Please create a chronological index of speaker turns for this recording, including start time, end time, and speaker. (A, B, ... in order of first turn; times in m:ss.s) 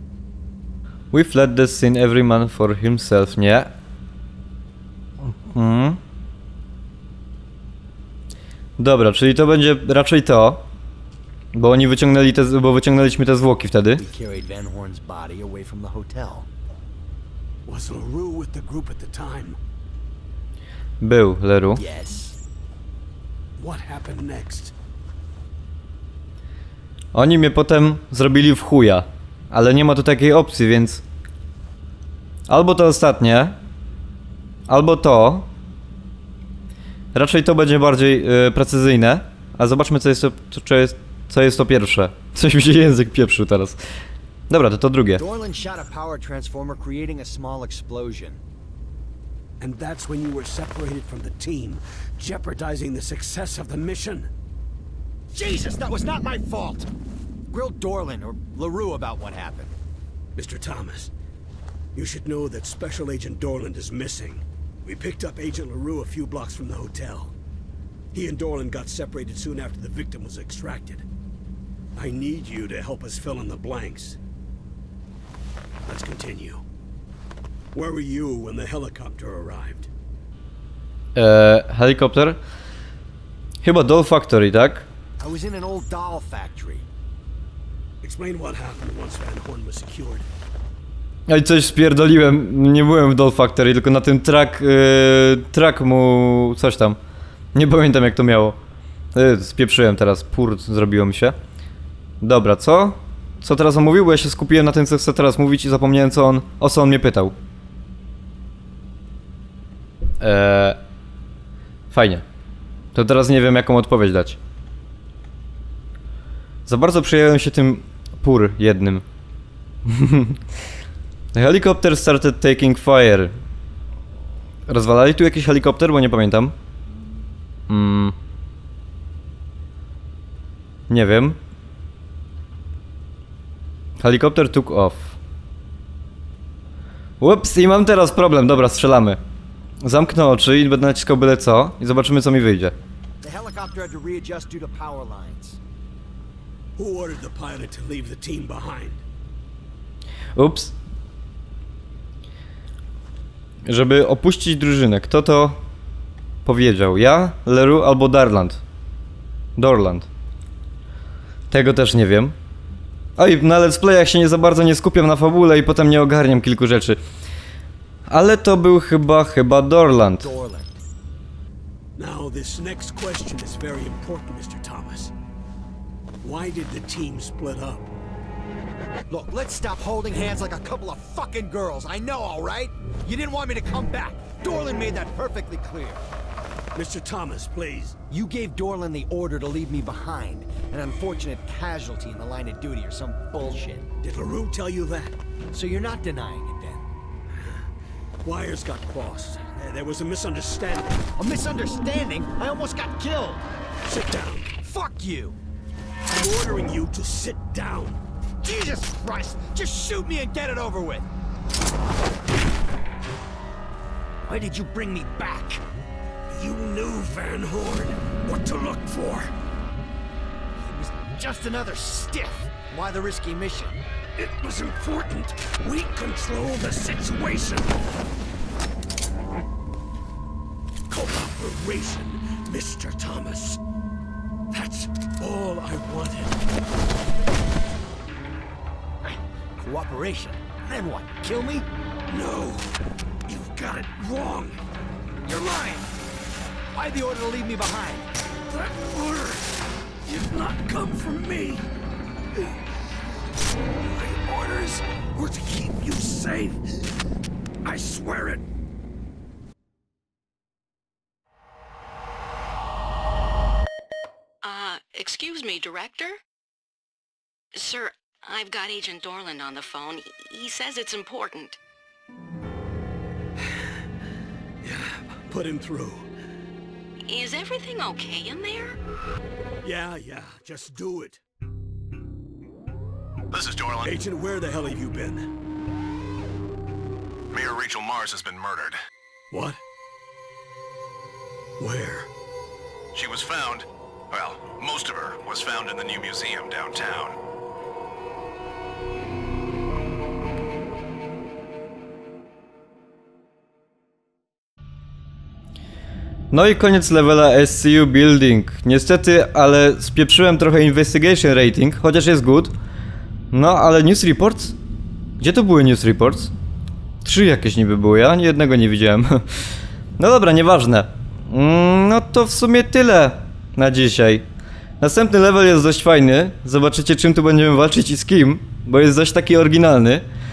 0:01.1-0:03.7 A
0:05.2-0:06.0 A
0:08.8-0:10.6 A
0:11.5-0:14.0 A
0:14.0-0:16.5 B
0:17.6-0:19.6 C
0:21.0-0:21.8 A
0:21.8-0:22.4 B
0:23.6-0:24.7 C
0:27.1-0:31.0 A
0:32.5-0:33.6 A
0:34.7-0:35.5 A
0:37.1-0:43.8 A
0:44.5-0:45.2 A
0:45.2-0:48.4 B
0:49.6-0:54.3 C
0:55.3-0:56.9 B
0:57.5-0:59.8 B
1:00.4-1:01.1 C
1:01.9-1:07.3 C
1:08.1-1:11.0 C
1:11.9-1:14.2 C
1:15.8-1:16.6 C
1:17.7-1:19.9 C
1:21.1-1:22.4 A
1:23.6-1:24.9 A
1:25.2-1:26.8 B
1:28.0-1:30.3 C
1:31.3-1:37.0 A
1:37.5-1:38.6 A
1:39.1-1:41.4 A
1:42.2-1:47.3 A
1:50.2-1:50.8 A
1:51.9-1:52.2 A
1:52.9-1:54.4 A
1:56.7-1:59.0 A
1:59.8-2:00.4 A
2:01.3-2:03.3 A
2:04.7-2:06.5 A
2:07.7-2:08.1 A
2:10.9-2:11.4 A
2:14.0-2:15.2 A
2:17.2-2:19.2 A
2:19.8-2:22.7 A
2:23.2-2:25.6 B
2:26.8-2:29.0 C
2:30.4-2:30.7 A
2:33.6-2:35.6 A
2:36.4-2:38.6 A
2:39.6-2:40.1 A
2:41.5-2:42.3 A
2:43.2-2:47.0 A
2:48.1-2:50.3 A
2:50.2-2:50.8 B
2:52.0-2:55.1 C
2:56.2-2:57.9 C
2:59.1-3:06.0 B
3:06.7-3:08.0 C
3:08.1-3:13.9 B
3:14.0-3:15.1 C
3:15.5-3:16.8 B
3:17.3-3:17.6 C
3:18.2-3:21.1 C
3:21.2-3:23.4 B
3:23.8-3:24.5 C
3:24.6-3:25.4 B
3:26.1-3:28.0 C
3:28.4-3:31.1 B
3:34.2-3:35.6 B
3:36.3-3:39.3 C
3:40.5-3:43.9 B
3:44.2-3:47.8 C
3:50.9-3:53.6 C
3:54.5-3:56.4 C
3:59.0-4:01.7 B
4:02.1-4:04.6 C
4:05.2-4:05.8 B
4:06.7-4:08.1 B
4:08.5-4:09.5 C
4:10.0-4:11.7 C
4:13.8-4:16.8 C
4:17.6-4:18.4 C
4:24.4-4:26.2 D
4:27.5-4:31.6 D
4:34.6-4:36.1 C
4:37.1-4:38.7 D
4:39.6-4:41.2 C
4:43.3-4:44.0 E
4:43.8-4:45.2 C
4:47.3-4:48.8 E
4:49.3-4:49.6 C
4:51.6-4:52.1 C
4:52.9-4:57.2 E
5:06.3-5:12.5 A
5:13.3-5:14.6 A
5:15.2-5:16.3 A
5:17.0-5:19.4 A
5:20.0-5:24.2 A
5:24.8-5:30.0 A